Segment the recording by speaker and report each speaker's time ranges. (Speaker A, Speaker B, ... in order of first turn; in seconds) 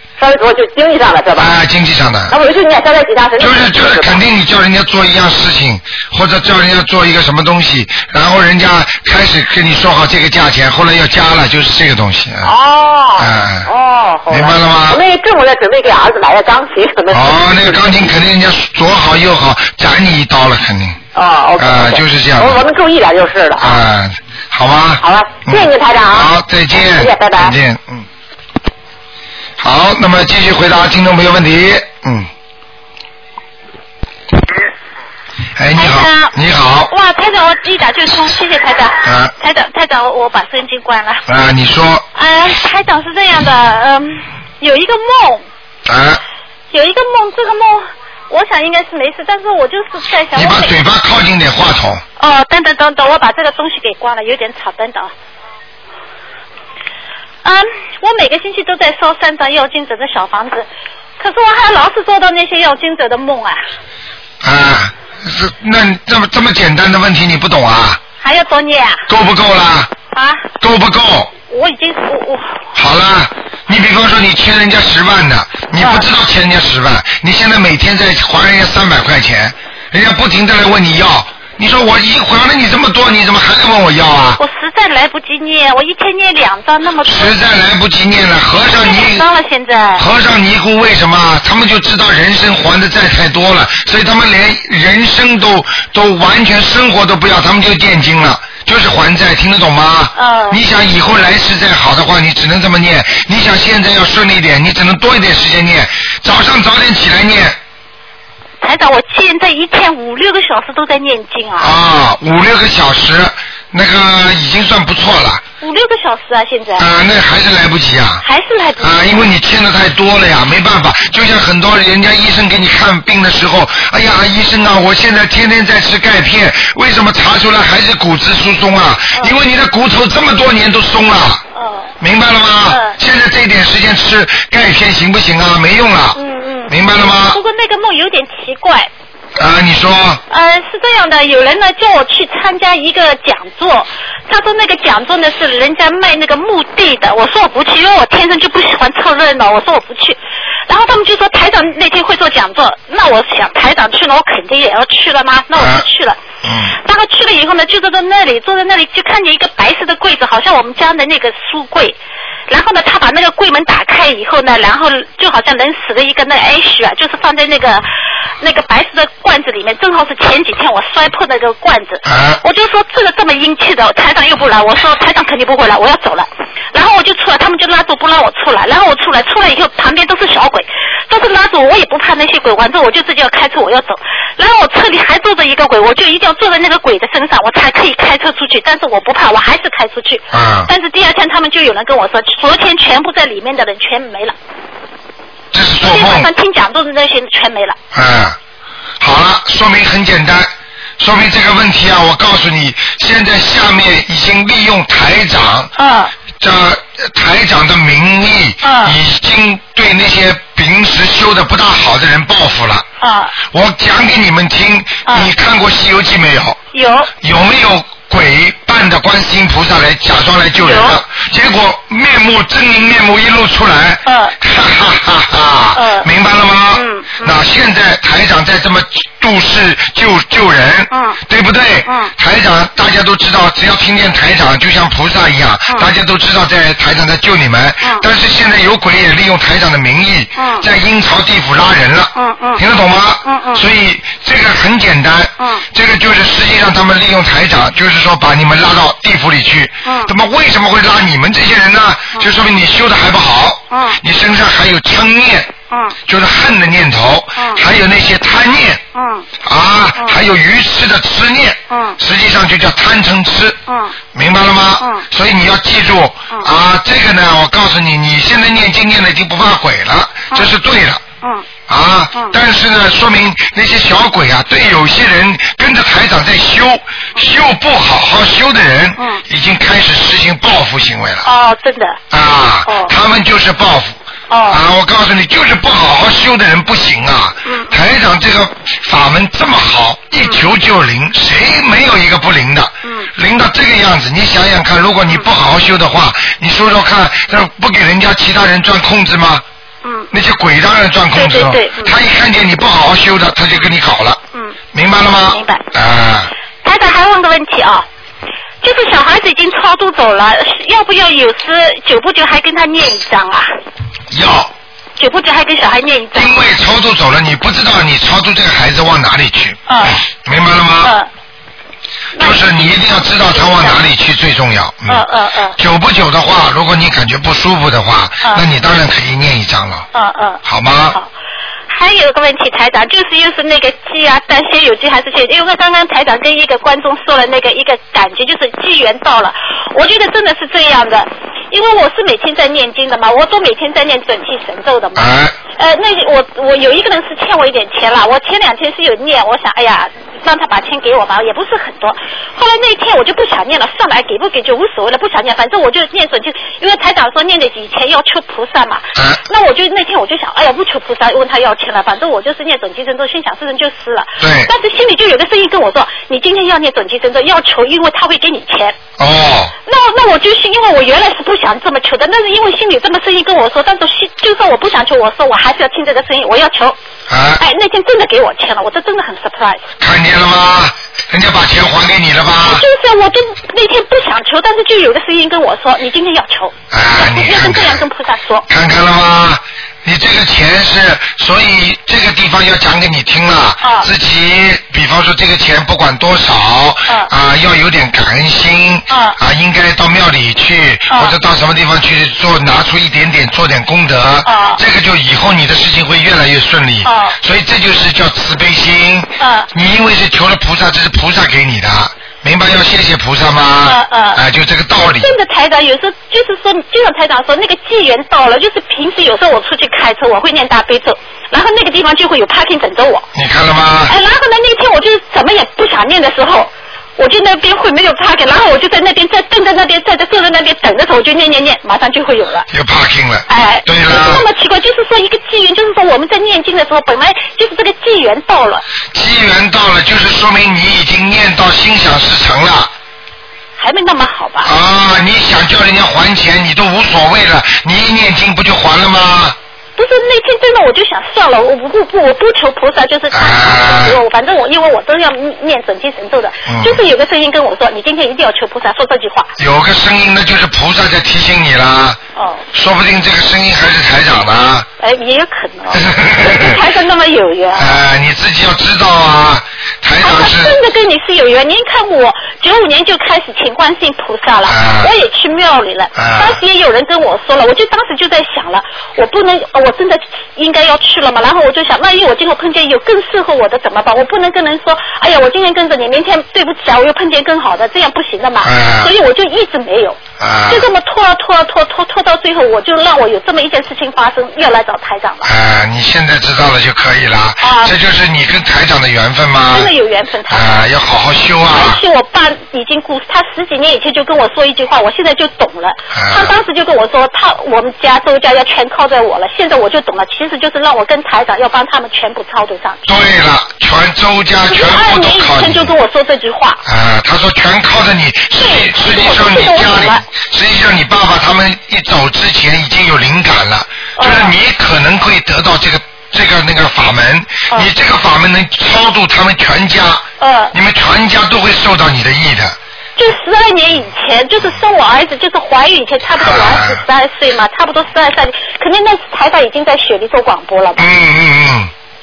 Speaker A: 0.2-1.6, 2.3-4.2, 12.4-18.1, 21.1-23.8, 25.0-27.5
Speaker B: 1.4-2.4, 3.4-12.5, 13.2-13.7, 14.3-15.0, 17.1-21.0, 21.6-22.6, 23.6-28.1, 29.6-32.3, 35.5-36.9, 39.0-39.3, 41.3-42.0, 45.9-46.2, 50.3-52.0, 64.4-68.0, 69.1-69.9, 70.6-71.3, 72.7-84.4, 87.0-89.2, 89.9-107.6, 111.6-115.4, 116.8-118.2, 118.8-131.4, 132.0-136.2, 136.7-137.4, 139.3-140.2, 155.6-155.8, 156.4-156.8, 172.1-172.4, 190.3-190.7, 195.5-196.3, 197.9-198.4, 199.0-205.7, 206.4-212.8, 213.4-216.6, 217.2-255.5, 256.1-258.8, 259.4-263.6, 264.1-271.0, 271.7-281.3, 282.1-284.0, 284.5-299.4, 300.1-304.2, 304.7-306.3, 314.1-314.5, 316.1-320.9, 322.2-325.0, 325.6-329.9, 330.4-331.0, 344.9-345.3, 358.9-359.2, 364.2-364.5, 369.0-369.5, 377.1-377.4, 379.8-382.6, 386.7-387.8, 388.5-415.1, 423.1-423.9, 432.5-434.2, 438.9-442.7, 444.4-449.4, 453.1-454.0, 456.5-456.8, 459.4-462.0, 462.5-464.7, 465.7-466.6, 467.6-470.6, 474.4-474.9, 475.9-476.4, 488.4-488.9, 490.2-490.7, 495.2-499.7, 500.3-501.8, 505.9-506.4, 512.9-515.7, 516.6-532.5, 536.2-536.8, 540.8-541.7
Speaker C: 35.7-36.3, 36.9-41.2, 42.1-45.5, 46.7-50.8, 52.2-55.1, 57.4-60.7, 61.2-63.6, 68.2-69.0, 70.1-70.5, 71.5-72.6, 75.8-76.1, 84.4-87.3, 88.7-90.0, 100.2-100.6, 108.6-111.7, 115.6-116.9, 118.2-119.2, 131.5-131.9, 132.7-132.9, 136.1-138.9, 140.3-156.2, 156.8-162.0, 162.5-167.8, 168.4-194.3, 195.8-197.8, 205.8-206.1, 208.6-208.9, 213.0-213.3, 215.1-215.3, 216.7-217.1, 220.5-221.0, 224.1-224.3, 225.7-226.1, 226.7-227.4, 230.9-231.2, 231.8-232.1, 240.3-240.7, 242.1-242.6, 243.2-243.7, 249.8-250.1, 253.7-254.0, 255.7-255.9, 257.4-257.6, 258.9-259.3, 261.7-262.0, 263.7-264.0, 264.8-265.0, 271.2-271.5, 281.2-282.0, 282.6-282.9, 284.3-284.6, 287.4-287.7, 299.8-300.1, 301.1-302.0, 305.3-305.6, 306.6-307.9, 308.6-313.5, 315.0-316.5, 319.7-320.0, 320.8-321.1, 322.1-323.8, 324.9-325.6, 329.9-330.4, 331.7-368.8, 369.6-376.8, 377.4-379.7, 382.4-388.4, 393.6-393.9, 398.9-399.2, 400.9-401.1, 404.2-404.6, 406.8-407.1, 409.2-409.5, 413.6-414.2, 414.8-423.1, 423.9-432.4, 433.3-438.6, 443.6-444.5, 449.8-459.3, 462.1-462.4, 464.8-467.8, 470.0-495.3, 497.4-497.7, 499.5-500.6, 501.5-512.9, 514.5-516.6, 518.4-520.0, 524.0-524.4, 530.2-530.5, 533.0-540.8